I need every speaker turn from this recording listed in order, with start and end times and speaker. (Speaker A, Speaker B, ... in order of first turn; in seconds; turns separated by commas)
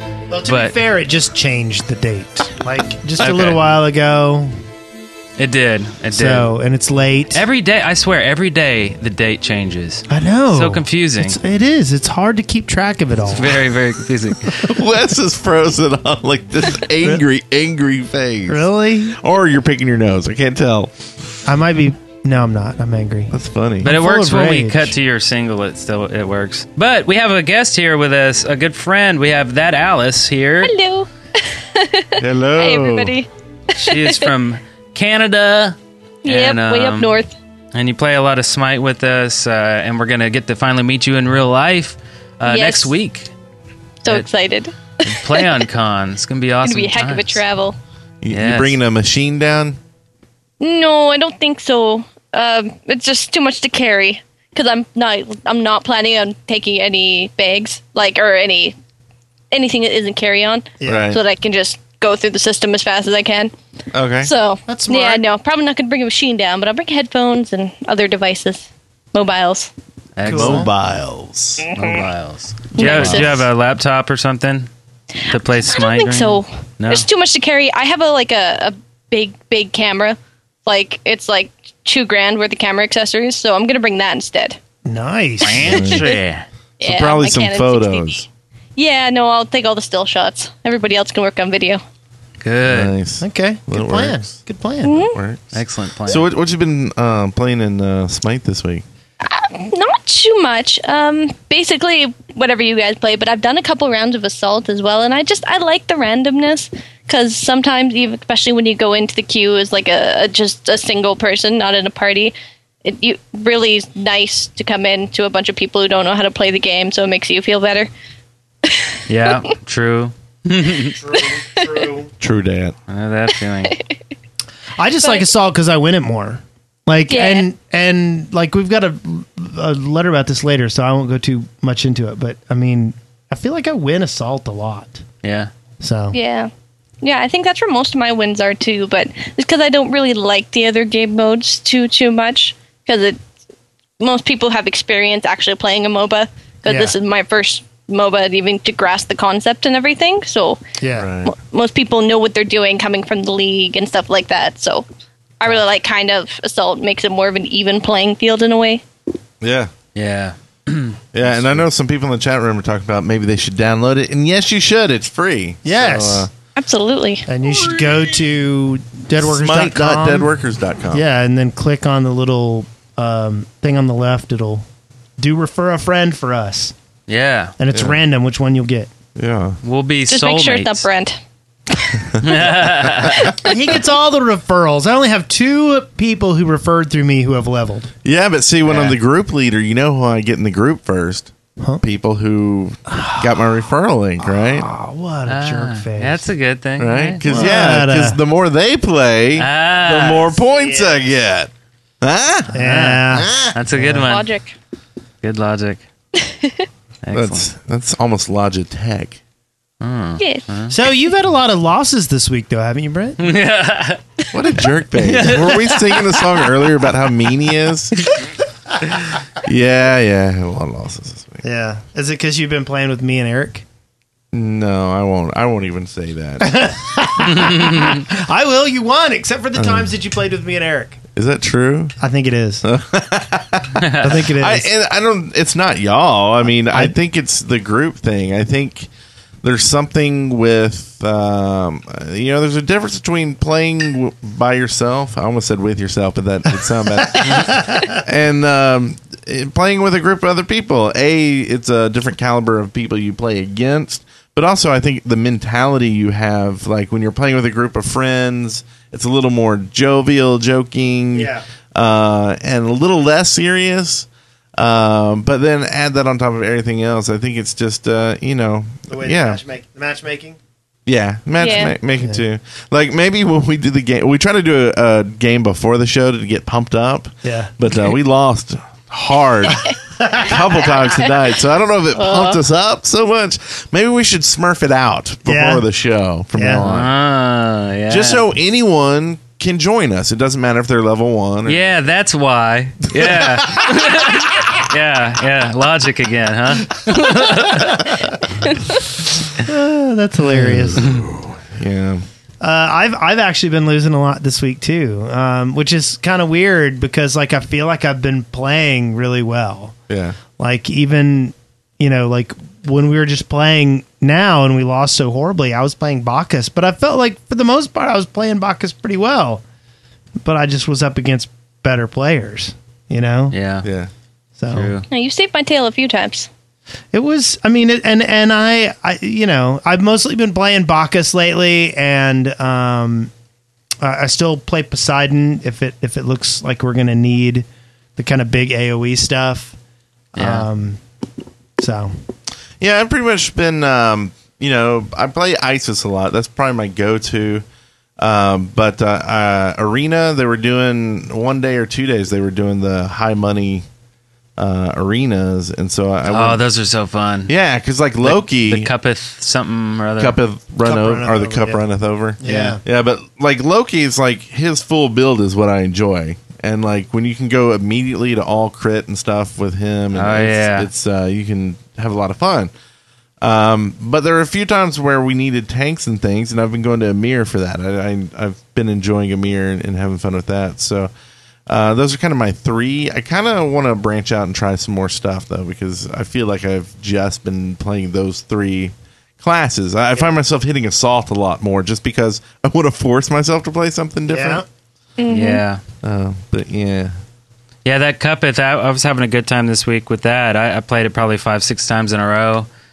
Speaker A: 0.3-4.5, Speaker B: 0.5-0.8, Speaker B: 3.2-3.6, Speaker B: 5.4-6.5, Speaker A: 6.1-7.4, Speaker B: 7.3-11.4, Speaker A: 10.1-13.6, Speaker B: 13.3-14.6, Speaker C: 14.4-20.9, Speaker A: 18.5-19.2, Speaker A: 21.5-24.9, Speaker C: 23.3-23.9, Speaker B: 23.8-30.7, Speaker D: 30.6-34.3, Speaker C: 32.2-33.2, Speaker B: 33.8-37.2, Speaker D: 36.2-37.3, Speaker B: 37.7-43.3, Speaker D: 42.5-43.0, Speaker D: 44.0-45.6, Speaker B: 45.0-47.4, Speaker D: 46.6-47.8, Speaker C: 48.2-49.8, Speaker B: 48.3-48.8, Speaker D: 50.6-58.8, Speaker D: 59.5-63.5, Speaker A: 60.8-61.1, Speaker C: 60.9-61.2, Speaker C: 63.9-64.3, Speaker D: 64.2-69.7, Speaker A: 64.7-65.2, Speaker B: 70.2-70.7, Speaker C: 70.2-71.7, Speaker A: 70.3-70.7, Speaker B: 71.7-74.7, Speaker D: 72.7-73.5, Speaker C: 72.8-73.4, Speaker D: 75.2-84.6, Speaker B: 75.2-77.1, Speaker A: 84.8-85.8, Speaker B: 85.4-86.5, Speaker C: 85.6-86.1, Speaker D: 85.8-86.2, Speaker D: 86.8-88.2, Speaker C: 86.8-88.3, Speaker D: 88.8-91.8, Speaker B: 92.4-92.9, Speaker C: 92.7-94.4, Speaker A: 93.2-95.1, Speaker D: 94.8-95.2, Speaker C: 94.9-98.8, Speaker B: 95.5-96.3, Speaker D: 99.2-117.9, Speaker D: 118.6-119.4, Speaker B: 119.1-121.0, Speaker A: 120.8-122.1, Speaker D: 121.2-121.8, Speaker C: 122.2-122.8, Speaker B: 122.9-123.8, Speaker D: 123.6-124.0, Speaker A: 124.8-135.0, Speaker D: 127.1-127.5, Speaker B: 135.2-135.5, Speaker A: 135.8-136.2, Speaker D: 136.1-136.5, Speaker D: 137.0-143.2, Speaker D: 144.0-150.6, Speaker A: 146.7-146.9, Speaker A: 150.8-151.1, Speaker C: 150.9-151.3, Speaker D: 151.2-154.8, Speaker D: 155.4-158.8, Speaker C: 159.4-159.7, Speaker B: 160.0-161.0, Speaker C: 161.1-166.3, Speaker A: 165.7-166.3, Speaker D: 166.6-167.3, Speaker A: 167.3-170.3, Speaker C: 169.2-171.1, Speaker A: 170.9-174.7, Speaker A: 175.2-176.7, Speaker B: 177.1-177.6, Speaker A: 177.6-178.9, Speaker C: 177.7-178.0, Speaker C: 179.2-179.6, Speaker B: 179.6-180.8, Speaker D: 180.1-181.2, Speaker D: 181.7-182.1, Speaker C: 182.1-183.2, Speaker B: 182.2-183.3, Speaker D: 183.2-183.8, Speaker A: 183.4-187.9, Speaker C: 188.0-194.7, Speaker B: 188.6-189.0, Speaker A: 192.9-193.3, Speaker A: 194.2-196.3, Speaker B: 195.3-197.5, Speaker C: 196.8-203.6, Speaker A: 197.2-198.2, Speaker B: 199.4-200.4, Speaker A: 200.4-201.1, Speaker A: 202.5-204.1, Speaker B: 202.6-204.3, Speaker D: 204.1-204.5, Speaker B: 205.2-205.8, Speaker D: 206.2-206.7, Speaker B: 207.0-207.5, Speaker C: 207.1-209.2, Speaker B: 209.8-210.8, Speaker A: 210.7-213.2, Speaker B: 213.2-214.0, Speaker C: 214.3-218.0, Speaker B: 215.0-216.2, Speaker C: 219.3-221.4, Speaker A: 221.4-223.6, Speaker C: 224.3-226.7, Speaker A: 226.4-231.0, Speaker B: 227.3-228.0, Speaker C: 229.6-229.9, Speaker C: 231.2-232.0, Speaker A: 232.0-232.7, Speaker C: 232.6-238.9, Speaker B: 233.8-234.1, Speaker A: 234.0-234.7, Speaker C: 239.4-269.4, Speaker A: 261.1-261.5, Speaker A: 268.9-270.4, Speaker C: 270.9-286.9, Speaker D: 271.4-271.7, Speaker A: 277.2-277.5, Speaker A: 280.0-280.3, Speaker D: 280.8-281.2, Speaker D: 282.0-282.4, Speaker A: 285.3-285.6, Speaker A: 286.4-286.7, Speaker B: 286.6-288.2, Speaker C: 287.9-291.6, Speaker B: 291.5-298.0, Speaker C: 292.9-293.8, Speaker A: 299.4-300.9, Speaker C: 300.2-302.1, Speaker A: 302.4-309.7, Speaker C: 309.9-310.2, Speaker A: 310.4-319.4, Speaker A: 320.2-323.4, Speaker B: 323.3-323.7, Speaker C: 323.6-323.9, Speaker A: 324.4-324.7, Speaker B: 324.5-324.9, Speaker D: 324.9-326.3, Speaker A: 326.9-333.1, Speaker A: 333.8-337.5, Speaker A: 338.0-339.6, Speaker A: 340.1-340.8, Speaker B: 340.2-340.5, Speaker A: 341.6-341.9, Speaker C: 342.6-347.4, Speaker C: 348.0-353.7, Speaker C: 354.4-356.4, Speaker B: 356.1-357.3, Speaker C: 357.3-358.7, Speaker B: 358.0-360.2, Speaker C: 360.0-372.5, Speaker A: 360.6-361.6, Speaker A: 362.2-362.6, Speaker B: 362.2-362.6, Speaker B: 369.9-370.7, Speaker C: 373.2-380.9, Speaker C: 381.5-394.4, Speaker A: 394.1-394.4, Speaker D: 395.0-395.4, Speaker B: 395.1-395.6, Speaker C: 395.8-396.9, Speaker B: 397.6-402.5